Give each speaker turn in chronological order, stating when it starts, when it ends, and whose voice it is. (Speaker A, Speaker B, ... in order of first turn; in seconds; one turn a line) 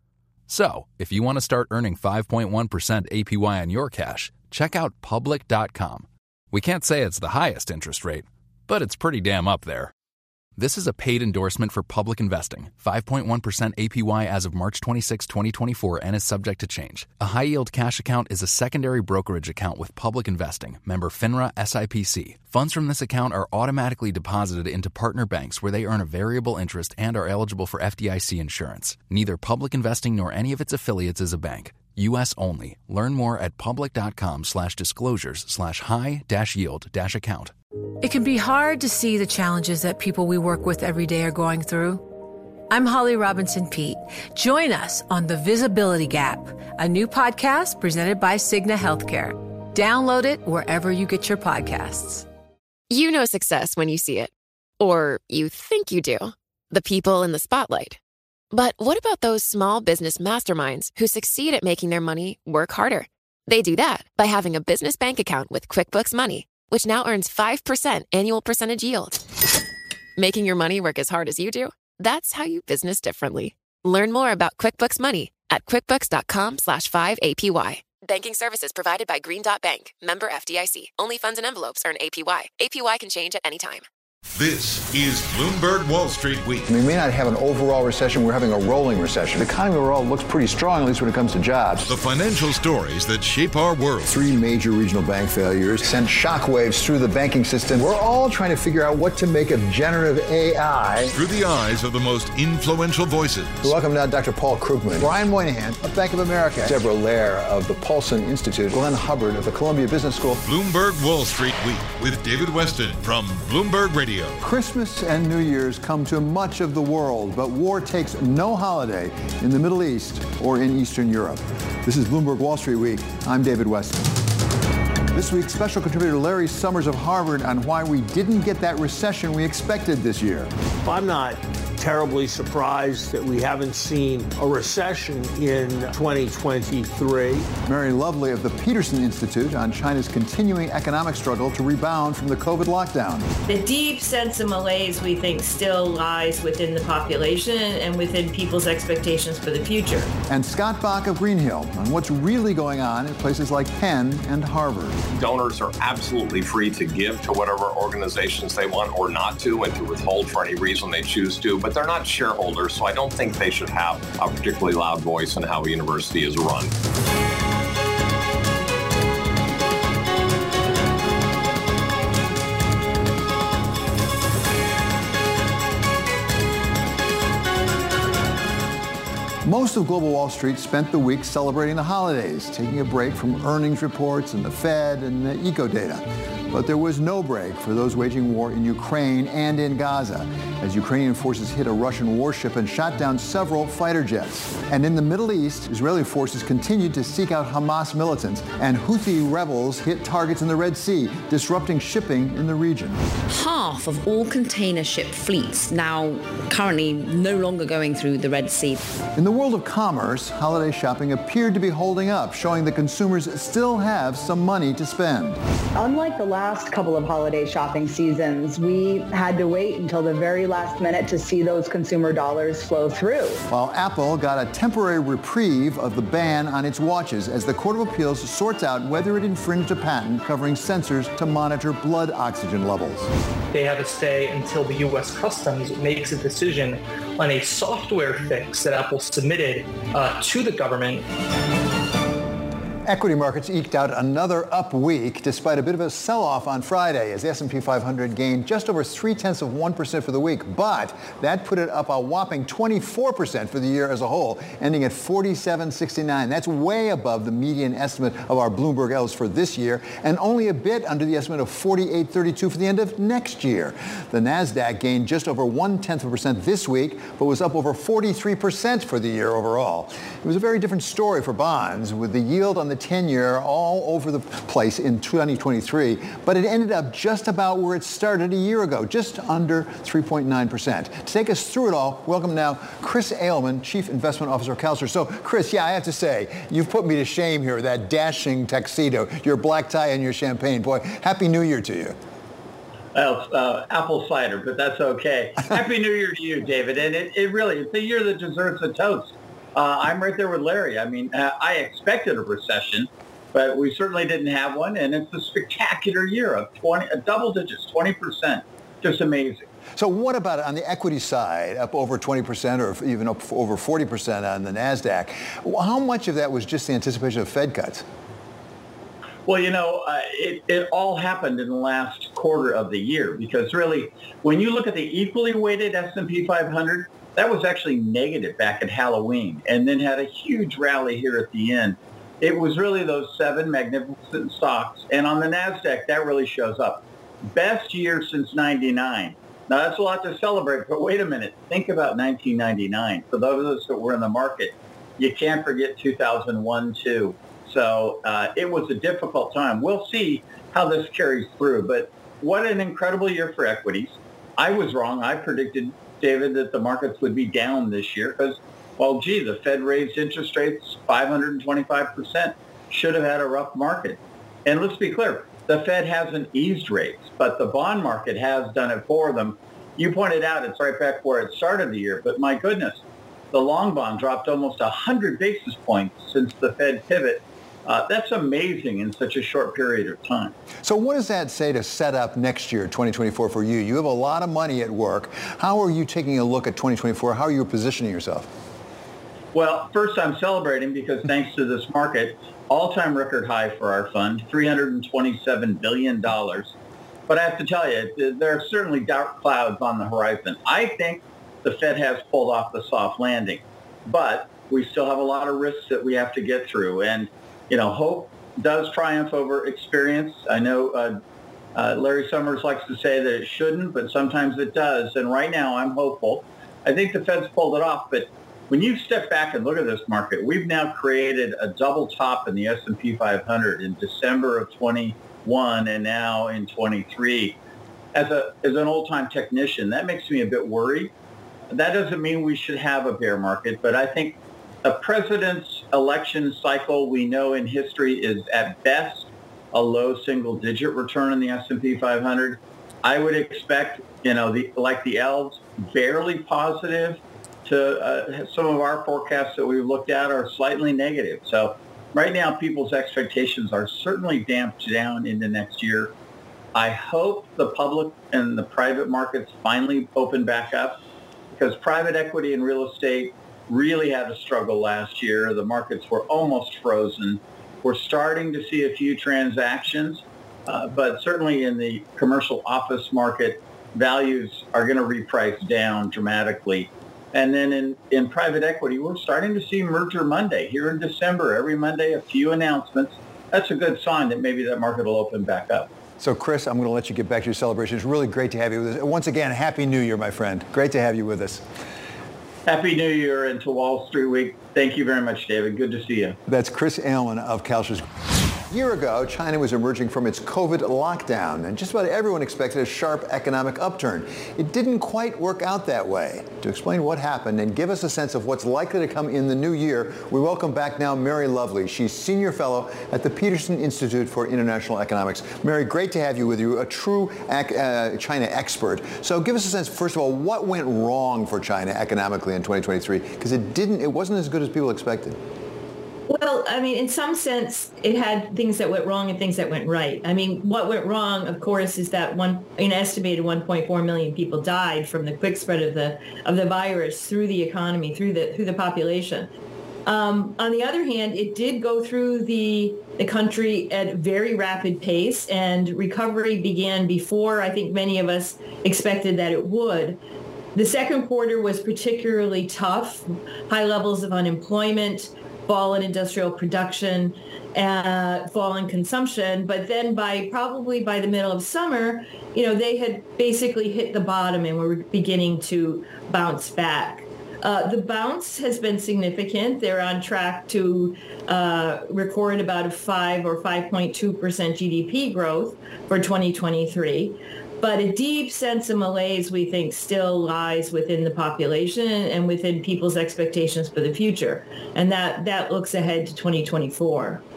Speaker A: 0.5-9.9
Speaker A: 10.6-37.5
Speaker B: 38.0-42.0
Speaker B: 42.7-52.3
Speaker C: 52.9-58.0
Speaker C: 58.5-69.2
Speaker C: 70.2-83.8
Speaker D: 84.3-86.7
Speaker E: 86.7-91.9
Speaker D: 91.9-94.2
Speaker E: 94.1-101.1
Speaker D: 101.1-103.7
Speaker E: 103.6-110.4
Speaker D: 110.5-114.4
Speaker E: 114.4-124.1
Speaker E: 125.1-130.5
Speaker F: 130.8-137.5
Speaker E: 137.7-143.3
Speaker G: 143.5-150.1
Speaker E: 150.3-155.0
Speaker H: 155.1-166.7
Speaker E: 179.4-203.0
Speaker I: 203.3-208.8
Speaker E: 209.2-215.4
Speaker J: 215.8-223.4
Speaker E: 223.5-233.1
Speaker K: 233.5-241.1
Speaker E: 242.8-292.0
Speaker L: 292.9-309.4
Speaker E: 309.8-317.9
Speaker L: 319.3-372.8
Speaker L: 373.3-380.4
Speaker E: 380.6-388.3
Speaker L: 389.3-396.5
Speaker L: 397.1-411.0
Speaker L: 411.6-427.4
Speaker L: 427.9-430.9
Speaker L: 431.5-455.9
Speaker L: 456.6-460.8
Speaker L: 461.3-485.7
Speaker E: 486.0-491.4
Speaker L: 492.5-496.2
Speaker E: 496.3-497.9
Speaker E: 498.5-525.2
Speaker G: 526.1-539.3
Speaker G: 539.9-550.0
Speaker G: 550.5-587.2